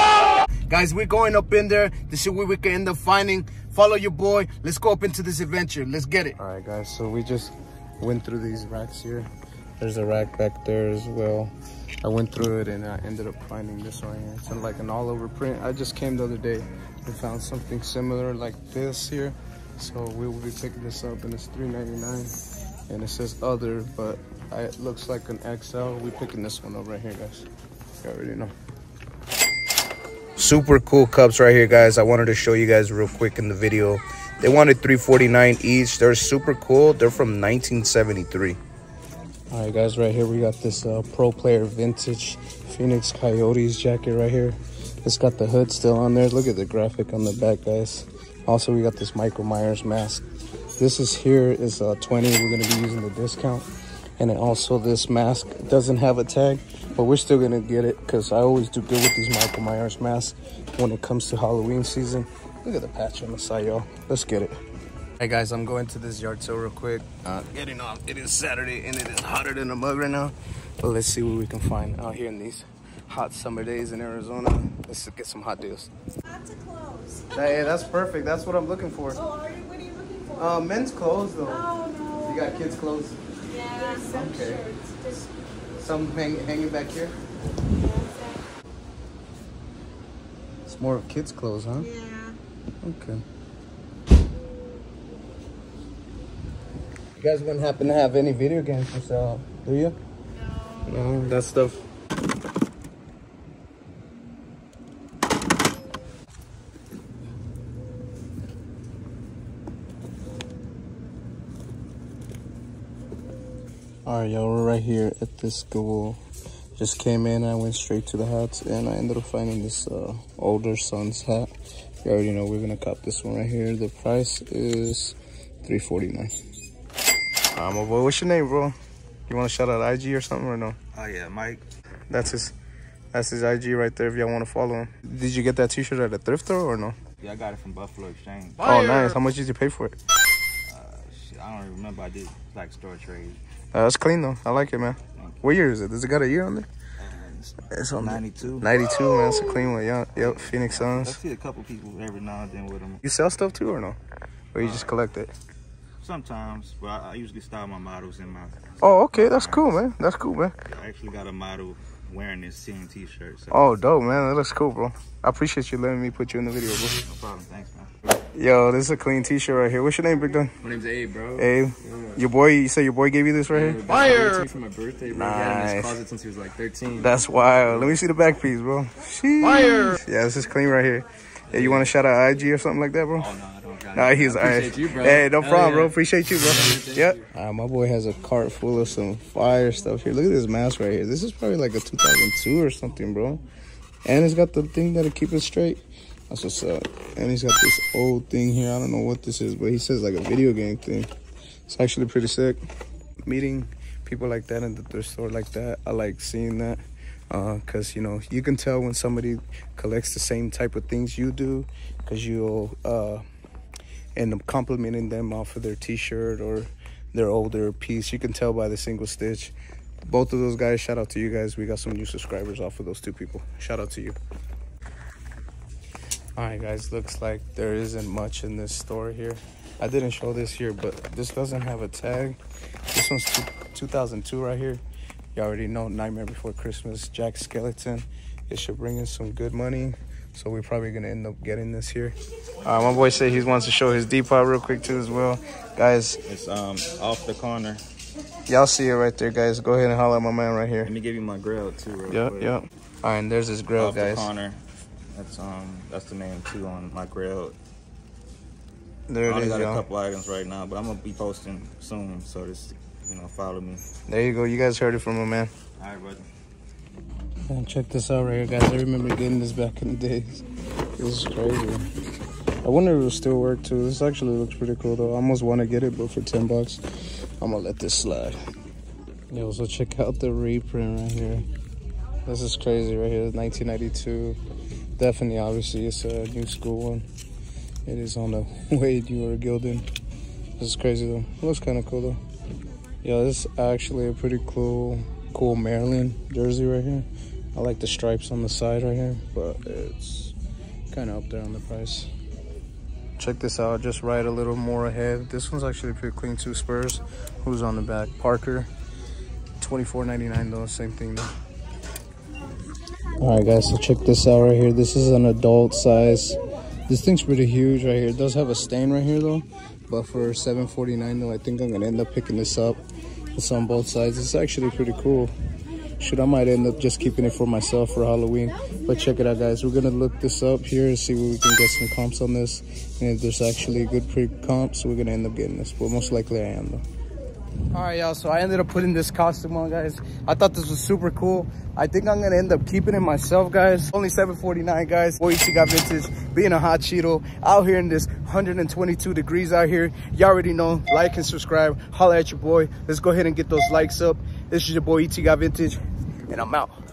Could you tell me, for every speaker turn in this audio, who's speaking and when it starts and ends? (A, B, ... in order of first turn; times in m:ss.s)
0:00.7-0:22.3 A
0:22.9-0:27.5 A
0:28.0-0:28.5 A
0:30.4-0:38.6 A
0:39.5-0:50.2 A
0:50.8-0:53.6 A
0:54.2-1:04.6 A
1:05.2-1:15.9 A
1:16.4-1:17.2 B
1:17.3-1:19.3 A
1:19.3-1:20.3 B
1:20.3-1:24.8 A
1:21.7-1:22.1 B
1:23.6-1:25.2 B
1:25.8-1:27.1 A
1:27.8-1:28.4 B
1:30.7-1:32.0 A
1:31.9-1:32.4 B
1:32.8-1:33.2 A
1:37.2-1:40.0 A
1:40.8-1:41.8 A
1:54.0-1:56.2 A
1:56.8-2:01.5 A
2:02.0-2:06.3 A
2:07.5-2:08.7 A
2:09.3-2:10.8 A
2:10.9-2:11.6 C
2:12.1-2:12.5 A
2:13.1-2:17.0 A
2:17.2-2:18.8 C
2:18.6-2:20.0 A
2:20.7-2:23.4 C
2:23.7-2:26.7 A
2:25.1-2:25.5 C
2:27.0-2:28.8 C
2:27.6-2:31.2 A
2:30.2-2:33.0 C
2:33.0-2:34.0 A
2:34.5-2:35.3 A
2:34.6-2:35.0 C
2:36.0-2:39.8 C
2:38.8-2:40.6 A
2:40.6-2:43.7 C
2:43.5-2:47.0 A
2:47.0-2:47.9 C
2:48.3-2:50.5 A
2:50.6-2:52.2 D
2:51.4-2:53.9 A
2:53.5-2:57.9 D
2:55.1-2:56.0 A
2:57.0-3:03.3 A
3:01.5-3:01.9 D
3:03.2-3:07.2 D
3:03.4-3:04.0 C
3:03.9-3:13.4 A
3:14.0-3:21.1 A
3:21.7-3:22.6 A
3:23.2-3:33.2 A
3:34.1-3:44.2 A
3:46.4-3:52.4 A
3:52.9-3:54.8 A
3:55.3-4:06.2 A
4:06.2-4:07.8 C
4:08.5-4:10.9 A
4:10.8-4:12.5 C
4:12.1-4:14.3 A
4:13.8-4:14.6 C
4:15.1-4:17.6 C
4:19.1-4:19.8 A
4:19.2-4:23.8 C
4:24.0-4:25.5 A
4:25.8-4:26.3 C
4:27.5-4:30.4 A
4:31.0-4:31.8 A
4:32.6-4:36.8 A
4:37.4-4:38.4 A
4:39.3-4:41.4 A
4:42.2-4:44.4 A
4:45.0-4:47.0 A
4:47.8-4:49.9 A
4:50.6-4:52.2 A
4:53.0-5:00.3 A
5:00.9-5:02.1 A
5:03.2-5:08.7 A
5:09.6-5:11.3 A
5:13.2-5:22.8 A
5:23.3-5:25.3 A
5:26.0-5:36.8 A
5:37.7-5:56.7 A